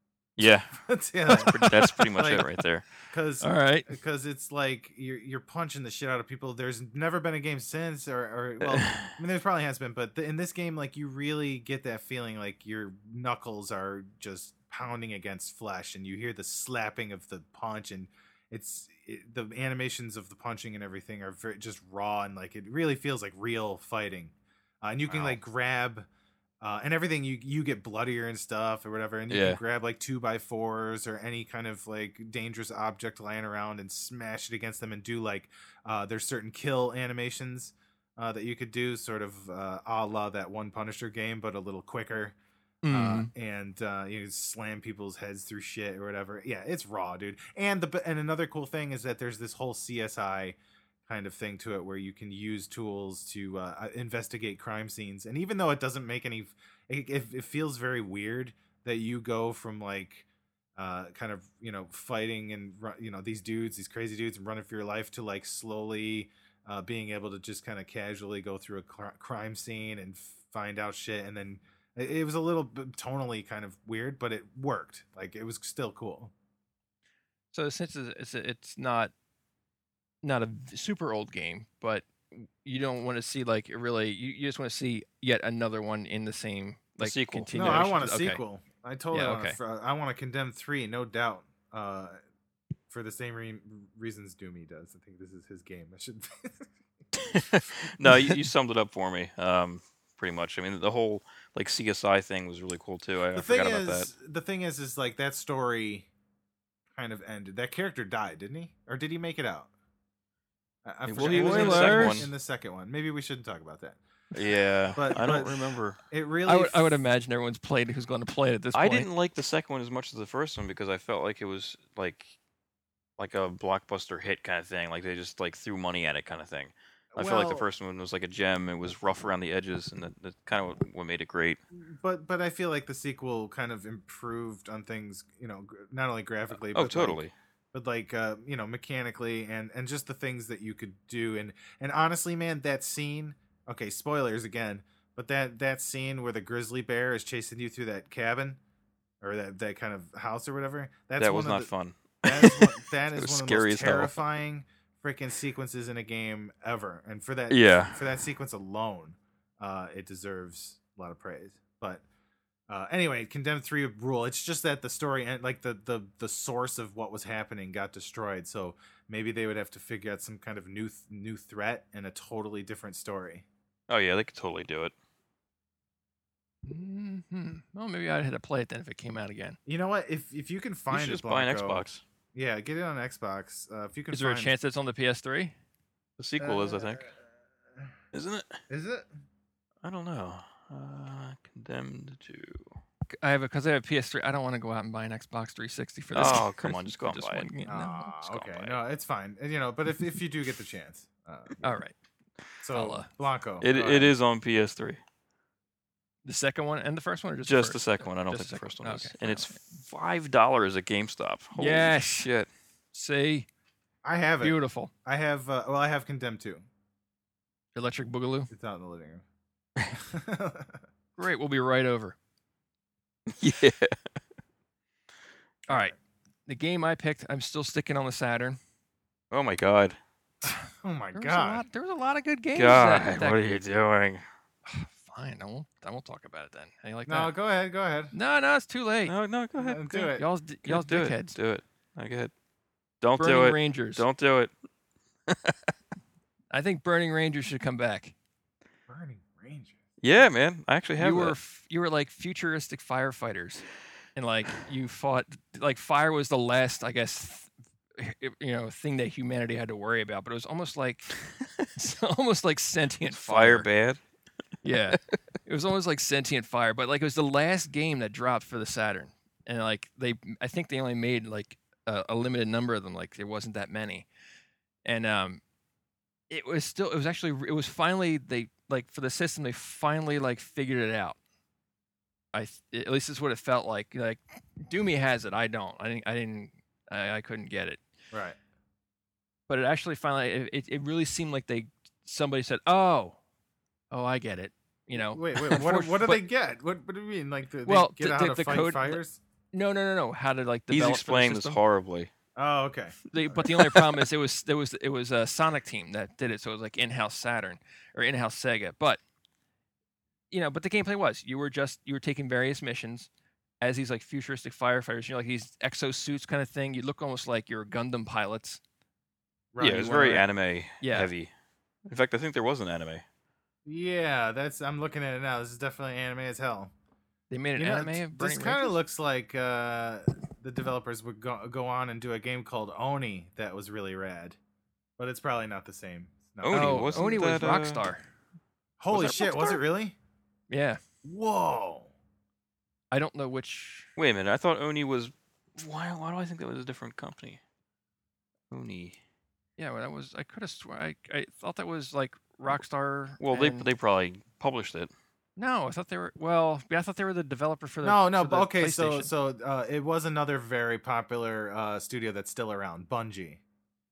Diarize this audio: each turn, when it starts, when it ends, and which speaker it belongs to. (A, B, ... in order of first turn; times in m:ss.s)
0:00.4-0:00.7 A
0:00.4-0:02.5 B
0:01.3-0:02.1 C
0:01.3-0:02.8 A
0:03.1-0:26.1 B
0:03.4-0:03.9 C
0:08.6-0:09.1 A
0:25.1-0:25.4 A
0:26.6-0:42.4 B
0:29.3-0:29.6 A
0:42.8-0:43.3 C
0:42.9-1:16.3 B
1:17.5-1:19.1 C
1:20.2-1:28.4 C
1:27.0-1:27.9 A
1:27.5-1:32.2 B
1:29.1-1:29.6 C
1:32.9-1:36.7 B
1:37.2-1:44.1 A
1:38.1-1:38.4 C
1:43.3-1:46.1 B
1:46.9-1:49.7 B
1:50.8-1:54.0 B
1:51.1-1:52.3 A
1:51.2-1:52.3 C
1:54.3-1:56.0 A
1:55.0-1:57.0 B
1:56.5-1:59.1 C
1:58.7-2:02.4 A
2:03.2-2:11.6 A
2:07.2-2:07.7 B
2:11.8-2:17.2 B
2:16.7-2:17.3 A
2:17.7-2:28.6 B
2:29.2-2:31.7 B
2:31.2-2:34.2 A
2:32.2-2:42.0 B
2:37.5-2:38.0 A
2:42.7-2:53.5 B
2:53.9-2:54.9 A
2:56.7-2:59.6 C
2:59.7-3:04.5 B
3:00.9-3:02.0 A
3:04.1-3:05.6 C
3:06.2-3:07.1 A
3:06.4-3:07.2 B
3:08.1-3:08.6 A
3:08.7-3:09.1 B
3:09.8-3:12.8 A
3:13.1-3:18.2 C
3:16.1-3:17.5 A
3:17.7-3:21.8 B
3:18.2-3:18.8 A
3:21.6-3:22.0 C
3:22.6-3:24.2 B
3:22.7-3:23.1 C
3:23.6-3:25.0 A
3:26.2-3:29.5 C
3:27.4-3:32.5 A
3:31.6-3:32.3 C
3:32.9-3:33.5 C
3:34.0-3:36.6 B
3:34.4-3:34.9 C
3:37.8-3:38.5 C
3:38.5-3:39.2 B
3:39.9-3:40.8 B
3:41.2-3:42.2 C
3:43.4-3:44.0 A
3:45.7-3:45.9 B
3:45.7-3:45.9 C
3:46.5-3:48.6 C
3:49.3-3:50.0 A
3:50.7-3:51.6 B
3:51.1-3:53.4 C
3:52.6-3:54.2 A
3:54.6-3:57.3 C
3:57.1-3:58.1 B
3:58.1-3:59.1 C
3:59.1-3:59.9 A
3:59.6-4:00.2 B
3:59.9-4:01.4 C
4:00.6-4:02.3 A
4:03.0-4:04.5 A
4:03.2-4:04.0 C
4:05.3-4:05.5 A
4:06.5-4:08.2 C
4:08.9-4:09.8 B
4:10.0-4:11.4 A
4:11.0-4:13.6 C
4:14.2-4:21.1 C
4:21.8-4:23.7 C
4:23.1-4:24.0 A
4:24.6-4:34.1 C
4:34.8-4:35.4 C
4:36.3-4:41.2 C
4:42.3-4:47.8 C
4:48.1-4:48.4 B
4:49.5-4:53.2 C
4:53.9-4:56.2 C
4:54.9-4:59.2 B
4:57.7-5:01.6 C
5:00.7-5:02.1 A
5:02.4-5:03.5 B
5:03.1-5:09.0 C
5:03.6-5:03.9 A
5:10.3-5:13.1 C
5:13.6-5:18.6 C
5:19.5-5:20.2 B
5:19.6-5:21.3 A
5:19.6-5:20.2 C
5:20.8-5:21.1 C
5:21.9-5:23.0 A
5:23.6-5:26.7 B
5:27.3-5:28.8 C
5:27.6-5:34.4 B
5:35.0-5:37.2 B
5:36.4-5:37.9 A
5:36.5-5:38.0 C
5:38.8-5:40.0 B
5:38.9-5:39.6 A
5:40.5-5:40.8 C
5:41.0-5:41.9 B
5:42.9-5:43.9 C
5:44.0-5:47.4 A
5:48.5-5:49.0 A
5:49.6-5:53.7 C
5:53.2-5:54.9 A
5:55.4-5:59.1 C
5:57.8-6:03.4 B